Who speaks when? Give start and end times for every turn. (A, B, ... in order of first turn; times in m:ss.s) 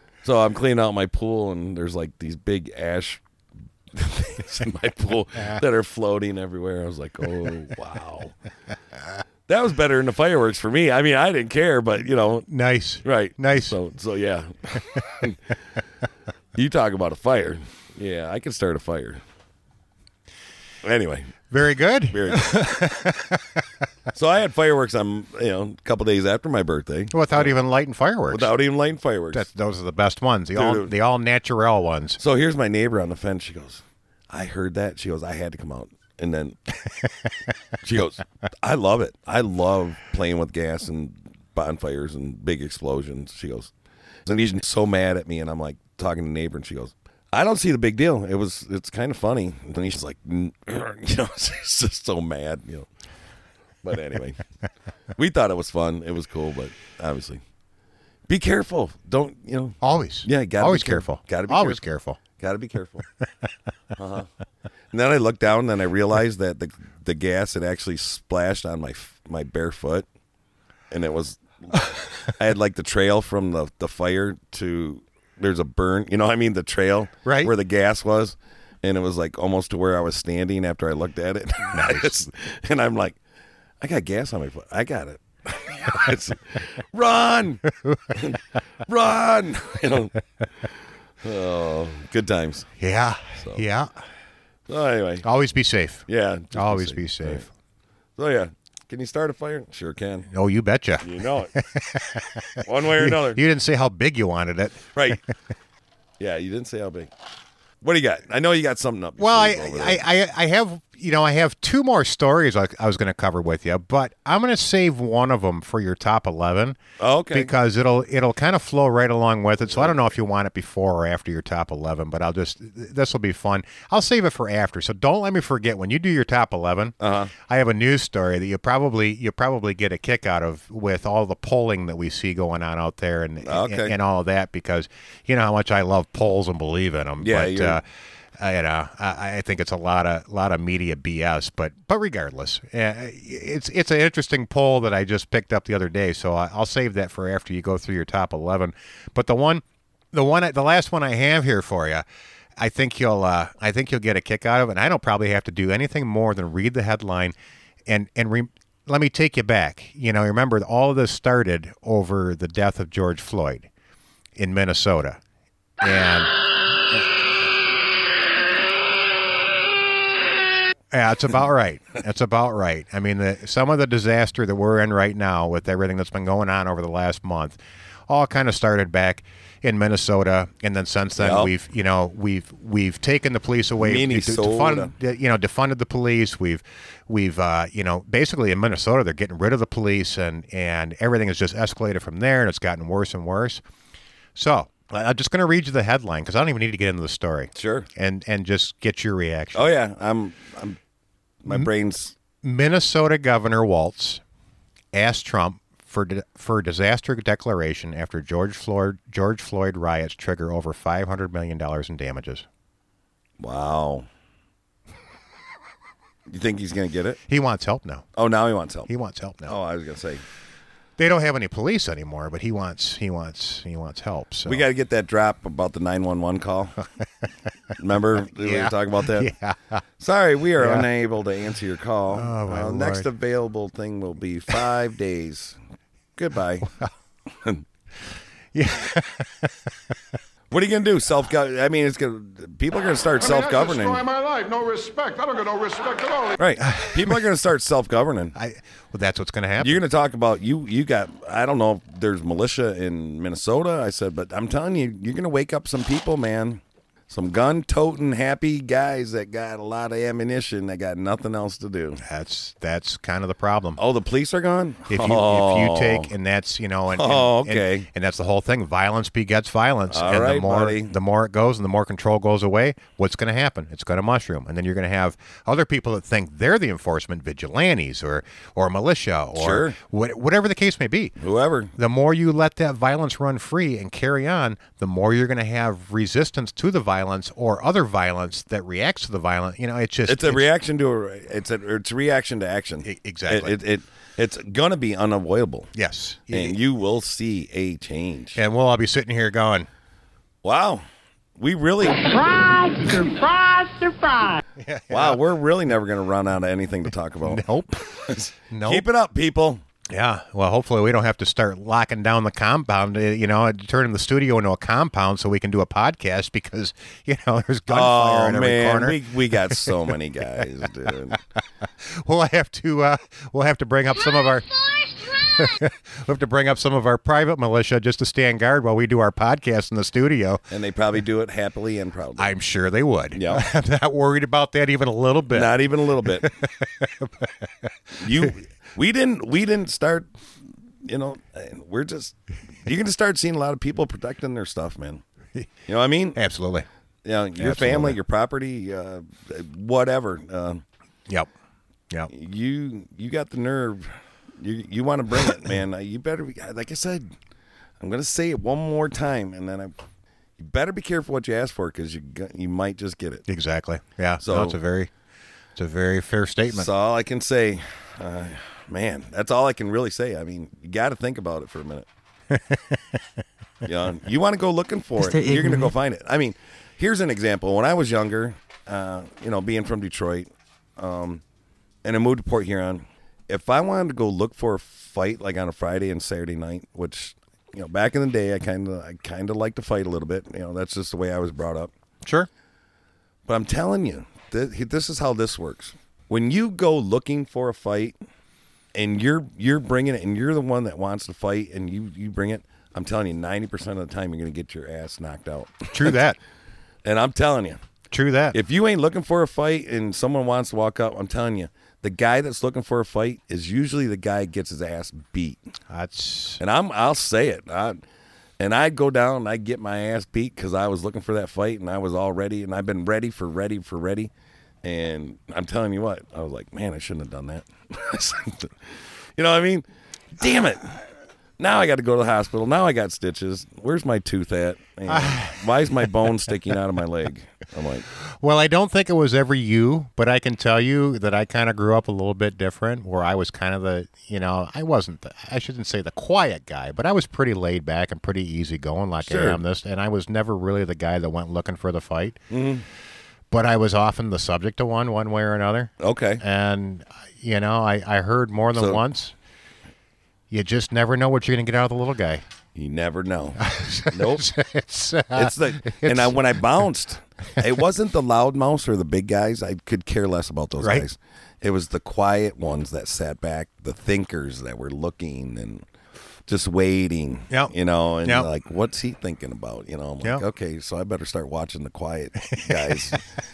0:00.2-0:03.2 A
0:03.9-0:08.4 A
0:09.5-0:12.5 A
0:12.5-0:13.8 B
0:13.0-0:15.4 A
0:16.6-0:19.2 A
0:20.8-0:21.3 A
0:21.5-0:23.4 B
0:22.1-0:22.8 A
0:24.1-0:27.6 A
0:27.1-0:28.5 B
0:28.3-0:29.5 A
0:29.3-0:32.2 B
0:30.6-0:30.9 A
0:32.2-0:36.6 A
0:37.8-0:43.7 A
0:44.3-0:52.9 A
0:53.8-0:54.4 A
0:55.2-0:57.4 A
0:58.3-1:03.0 A
0:59.8-1:02.2 B
1:04.0-1:04.3 A
1:04.9-1:10.1 A
1:10.9-1:23.2 A
1:17.2-1:17.5 B
1:21.7-1:22.1 B
1:23.8-1:30.1 A
1:27.9-1:28.2 B
1:31.2-1:32.7 A
1:32.8-1:33.9 B
1:34.7-1:35.3 A
1:35.2-1:37.5 B
1:36.1-1:37.5 A
1:38.2-1:40.3 A
1:40.3-1:44.9 B
1:41.0-1:41.5 A
1:42.6-1:43.4 A
1:44.9-1:45.2 A
1:46.2-1:47.1 A
1:47.8-1:50.0 A
1:49.2-1:56.8 B
1:57.0-1:57.5 A
1:57.3-2:07.0 B
1:59.7-2:00.1 A
2:07.0-2:07.3 A
2:07.5-2:17.8 B
2:13.4-2:14.0 A
2:17.2-2:17.8 A
2:18.4-2:32.0 B
2:32.6-2:37.4 B
2:37.9-2:43.7 B
2:44.4-2:45.2 B
2:45.8-2:46.3 B
2:50.9-2:57.6 B
2:58.1-3:13.6 B
3:01.2-3:01.5 A
3:03.8-3:04.9 A
3:14.4-3:19.7 B
3:17.6-3:17.9 A
3:19.5-3:20.8 A
3:21.4-3:22.2 A
3:22.4-3:24.2 B
3:24.9-3:32.5 B
3:33.4-3:34.1 A
3:36.3-3:37.2 A
3:37.3-3:38.1 B
3:38.2-3:38.9 A
3:38.9-3:39.6 B
3:39.4-3:40.2 A
3:41.0-3:44.6 B
3:44.5-3:46.7 A
3:47.8-3:49.3 A
3:48.4-3:49.8 B
3:50.0-3:55.6 A
3:50.6-3:50.9 B
3:52.1-3:53.1 B
3:56.2-3:56.7 A
3:57.3-3:57.6 A
3:58.5-3:59.7 B
4:00.5-4:04.0 A
4:03.2-4:06.4 C
4:06.4-4:08.4 A
4:06.6-4:07.2 B
4:08.4-4:09.8 B
4:09.6-4:22.0 A
4:22.0-4:23.8 B
4:23.8-4:26.1 A
4:24.9-4:41.2 B
4:26.9-4:27.9 A
4:29.9-4:31.0 A
4:39.4-4:39.8 A
4:41.2-4:41.7 A
4:41.8-4:50.5 B
4:50.1-4:55.7 A
4:52.8-4:53.6 B
4:55.8-4:56.6 B
4:56.3-4:58.4 A
4:58.4-4:59.7 B
5:00.4-5:00.8 A
5:01.4-5:02.2 A
5:04.6-5:05.2 B
5:04.9-5:07.5 A
5:07.2-5:08.8 B
5:08.1-5:09.6 A
5:09.9-5:19.7 B
5:17.7-5:21.2 A
5:21.9-5:30.4 B
5:30.5-5:32.3 A
5:32.2-5:38.3 B
5:33.1-5:33.5 A
5:35.3-5:36.3 A
5:38.0-5:40.1 A
5:40.8-5:45.0 A
5:45.7-5:46.2 A
5:46.2-5:46.7 B
5:47.0-5:50.6 A
5:47.4-5:48.0 B
5:52.1-5:57.1 A
5:57.8-5:59.8 A
6:00.4-6:03.2 A
6:03.3-6:04.9 B
6:04.2-6:04.6 A
6:05.6-6:06.7 B
6:06.5-6:11.9 A
6:12.3-6:13.0 B
6:13.6-6:21.2 A
6:21.8-6:31.7 A
6:33.3-6:38.0 A
6:38.8-6:46.0 A
6:45.7-6:46.2 B
6:46.8-6:47.6 A
6:47.9-6:48.4 B
6:48.3-6:55.4 A
6:55.7-6:56.4 B
6:56.4-6:57.8 A
6:58.4-7:04.1 A
7:04.6-7:09.7 A
7:10.2-7:10.8 A
7:11.4-7:17.9 A
7:14.9-7:15.4 B
7:18.2-7:32.2 B
7:29.0-7:29.4 A
7:32.3-7:32.6 A
7:33.3-7:39.2 B
7:35.8-7:36.2 A
7:38.6-7:38.8 A
7:40.3-7:42.2 B
7:42.6-7:44.3 A
7:43.4-7:46.4 B
7:45.1-7:55.6 A
7:56.3-8:03.0 A
8:02.3-8:02.7 B